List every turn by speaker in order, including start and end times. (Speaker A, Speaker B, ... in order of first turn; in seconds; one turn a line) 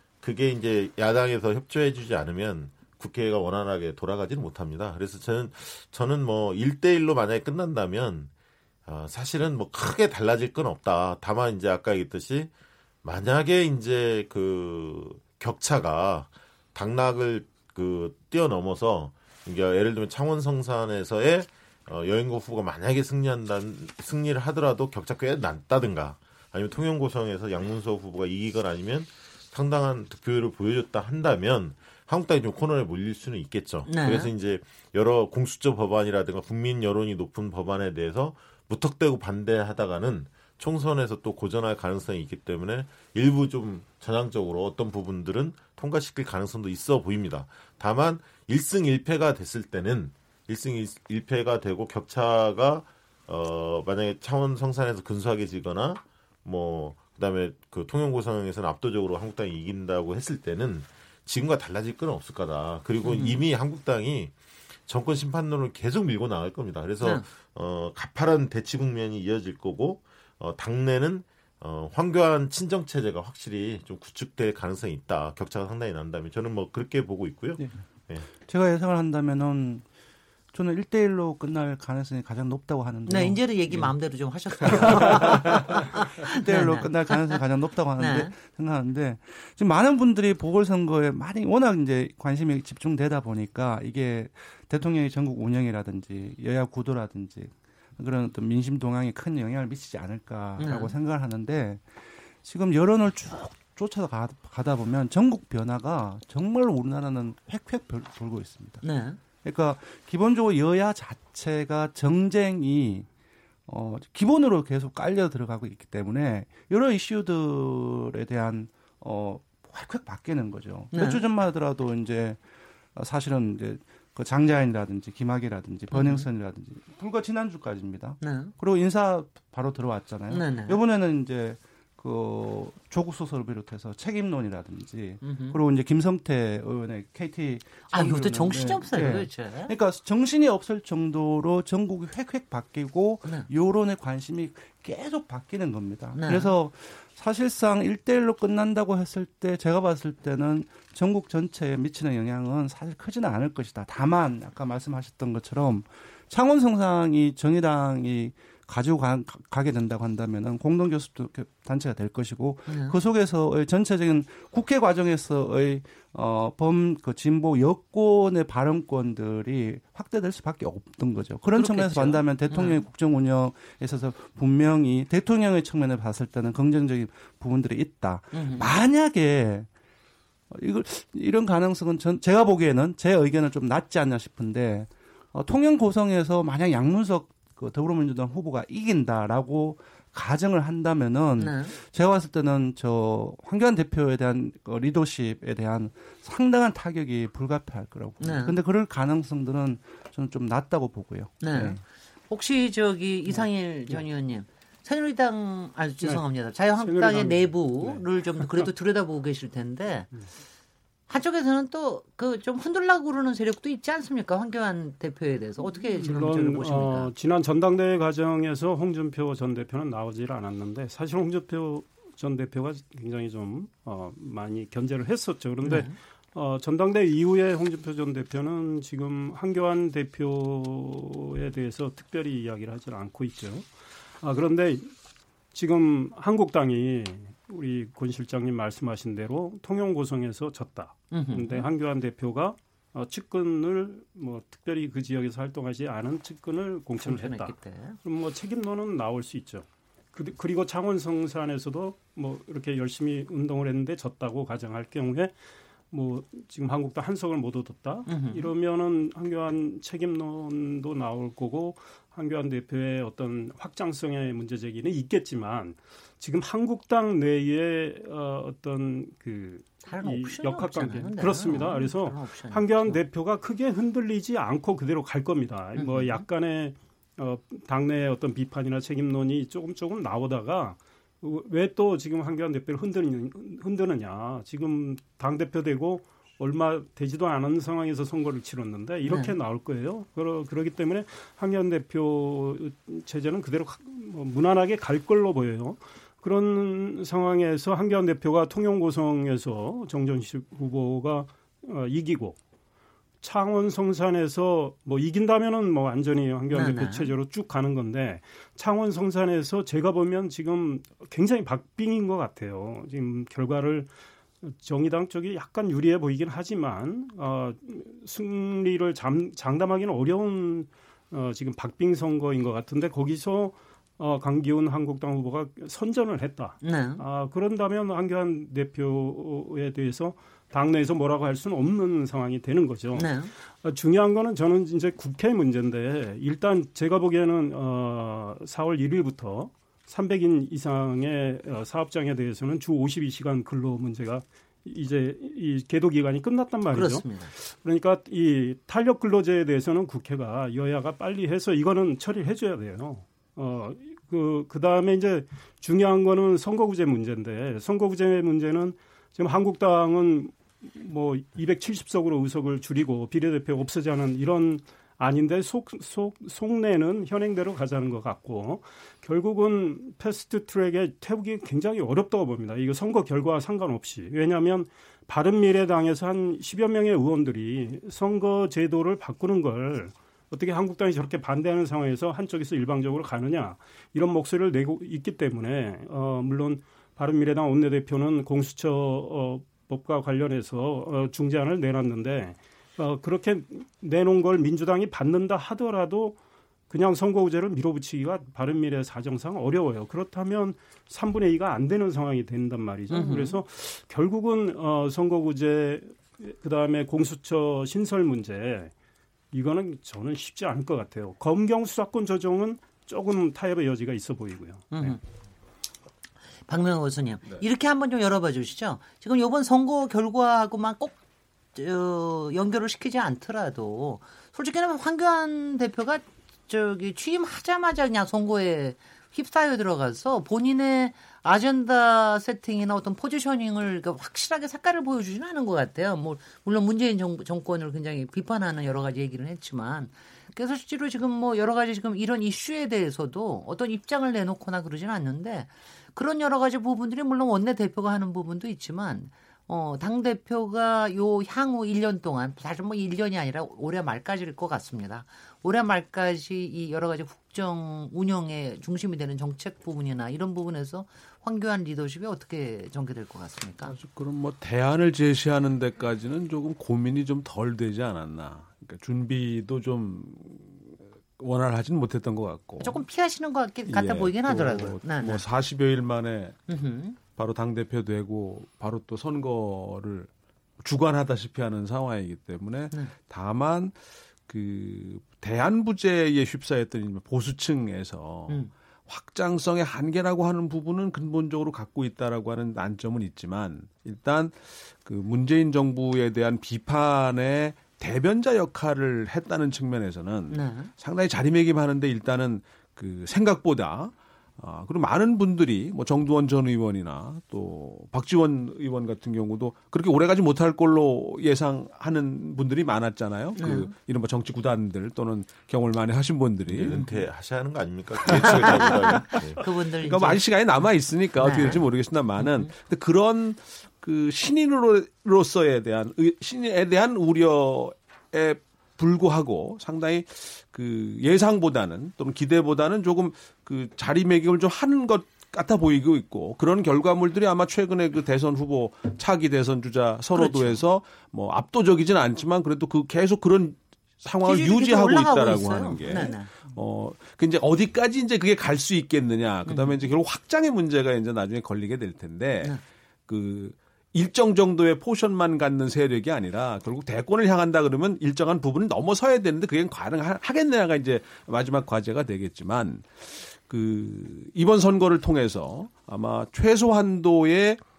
Speaker A: 0.2-8.3
Speaker A: 8.9-12.5
Speaker A: 13.0-64.3
Speaker B: 33.9-34.3
Speaker B: 63.0-63.4
Speaker A: 64.9-78.2
Speaker C: 77.6-79.8
Speaker C: 80.5-83.9
Speaker B: 83.1-87.4
Speaker C: 84.6-101.9
Speaker B: 88.0-88.3
Speaker B: 100.6-100.9
Speaker C: 102.4-108.8
Speaker B: 108.8-109.2
Speaker C: 109.4-113.1
Speaker C: 113.7-122.4
Speaker B: 120.9-121.2
Speaker C: 122.9-179.7
Speaker B: 125.9-126.3
Speaker B: 128.2-128.5
Speaker B: 130.3-130.8
Speaker B: 135.2-135.6
Speaker B: 137.9-139.7
Speaker B: 146.1-146.5
Speaker B: 162.7-162.9
Speaker B: 171.5-172.8
Speaker B: 178.3-178.7
Speaker C: 180.5-201.8
Speaker B: 191.4-191.8
Speaker B: 198.2-198.6
Speaker B: 201.4-210.1
Speaker D: 206.8-208.7
Speaker B: 211.1-217.1
Speaker D: 215.8-233.7
Speaker B: 225.6-226.0
Speaker D: 234.2-234.9
Speaker D: 235.5-247.5
Speaker B: 241.1-241.7
Speaker B: 247.0-248.0
Speaker D: 248.0-255.3
Speaker D: 255.9-302.4
Speaker B: 258.1-258.5
Speaker B: 269.9-273.0
Speaker B: 275.8-276.2
Speaker B: 289.0-289.4
Speaker D: 303.2-313.9
Speaker B: 306.5-307.1
Speaker D: 314.4-396.2
Speaker B: 326.6-327.0
Speaker B: 332.9-333.3
Speaker B: 346.7-347.3
Speaker D: 396.7-408.7
Speaker B: 402.9-403.4
Speaker D: 409.3-415.0
Speaker B: 414.7-415.0
Speaker B: 416.5-421.0
Speaker B: 421.5-463.7
Speaker E: 463.6-472.8
Speaker B: 472.6-475.2
Speaker E: 473.6-476.4
Speaker B: 476.5-477.0
Speaker E: 477.1-480.1
Speaker E: 480.6-516.8
Speaker B: 500.3-500.7
Speaker B: 513.4-513.7
Speaker A: 516.5-519.4
Speaker B: 516.6-517.0
Speaker E: 518.1-552.5
Speaker B: 518.2-520.2
Speaker B: 521.2-521.6
Speaker B: 522.2-522.5
Speaker B: 540.1-540.6
Speaker B: 544.2-546.3
Speaker B: 549.5-549.8
Speaker E: 553.1-567.6